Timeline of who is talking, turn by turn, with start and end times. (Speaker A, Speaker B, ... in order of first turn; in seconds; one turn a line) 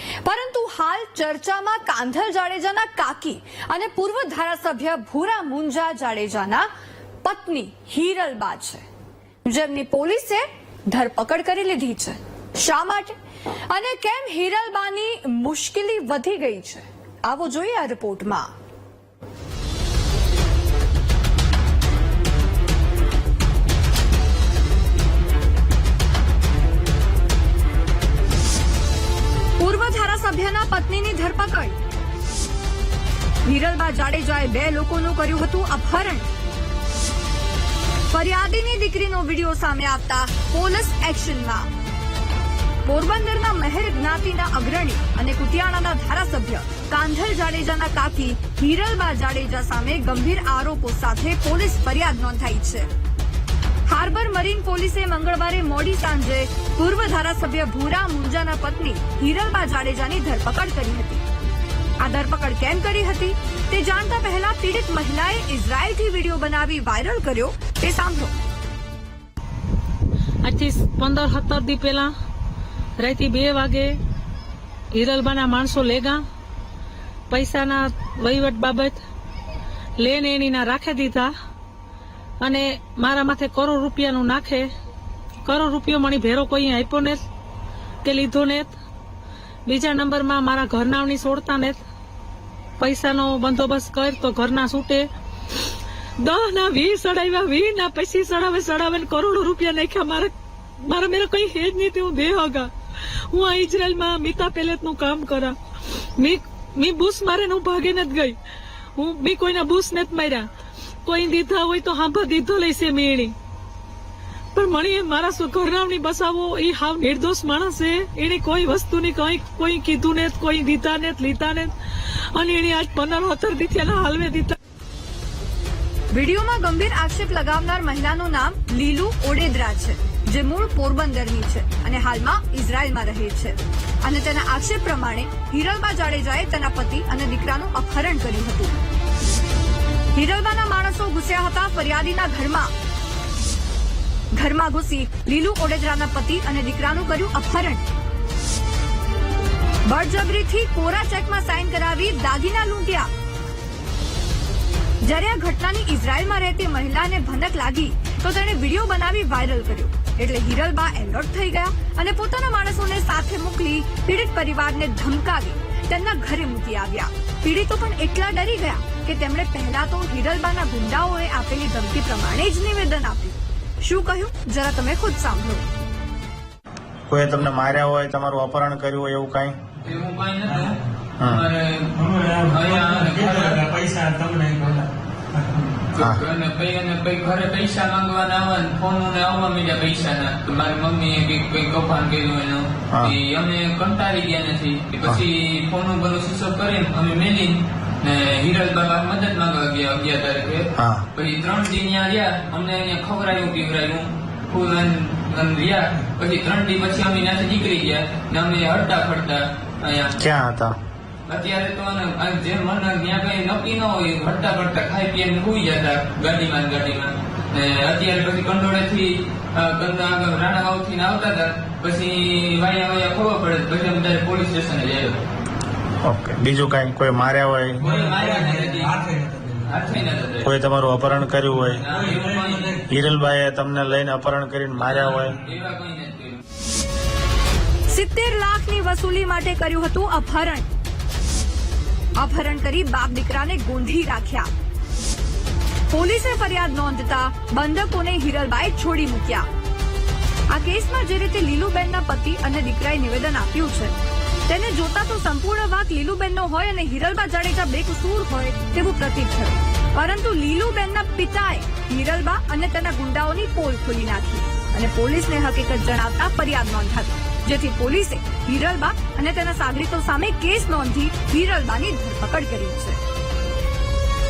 Speaker A: 0.2-6.7
Speaker A: 7.2-8.8
Speaker A: 9.4-13.2
Speaker A: 13.7-18.5
Speaker A: 29.6-31.8
Speaker A: 33.5-36.2
Speaker A: 38.1-41.7
Speaker A: 42.8-52.9
Speaker A: 53.9-61.2
Speaker A: 62.0-68.3
Speaker B: 70.4-72.1
Speaker B: 73.0-74.0
Speaker B: 74.9-76.2
Speaker B: 77.3-79.0
Speaker B: 80.0-81.3
Speaker B: 82.4-84.7
Speaker B: 85.5-87.2
Speaker B: 88.0-88.7
Speaker B: 89.7-91.8
Speaker B: 92.8-95.1
Speaker B: 96.2-100.3
Speaker B: 100.8-102.7
Speaker B: 103.3-105.5
Speaker B: 106.2-108.4
Speaker B: 109.0-110.5
Speaker B: 111.0-113.3
Speaker B: 114.5-121.7
Speaker B: 122.3-124.5
Speaker A: 126.1-138.7
Speaker A: 140.1-142.7
Speaker A: 144.3-147.8
Speaker A: 149.8-153.1
Speaker A: 155.0-175.6
Speaker C: 177.1-179.6
Speaker D: 179.8-183.6
Speaker E: 180.4-180.7
Speaker C: 181.2-181.4
Speaker E: 181.9-185.5
Speaker D: 185.8-210.2
Speaker C: 200.8-201.0
Speaker C: 210.2-210.8
Speaker D: 211.3-225.2
Speaker C: 226.0-227.8
Speaker D: 227.8-229.1
Speaker E: 227.8-229.7
Speaker D: 229.6-230.5
Speaker C: 230.4-231.8
Speaker D: 231.7-232.8
Speaker E: 231.9-232.8
Speaker C: 232.9-235.4
Speaker D: 234.8-236.4
Speaker A: 237.9-240.7
Speaker A: 242.2-244.5
Speaker A: 245.9-249.5
Speaker A: 250.5-253.9
Speaker A: 254.5-273.0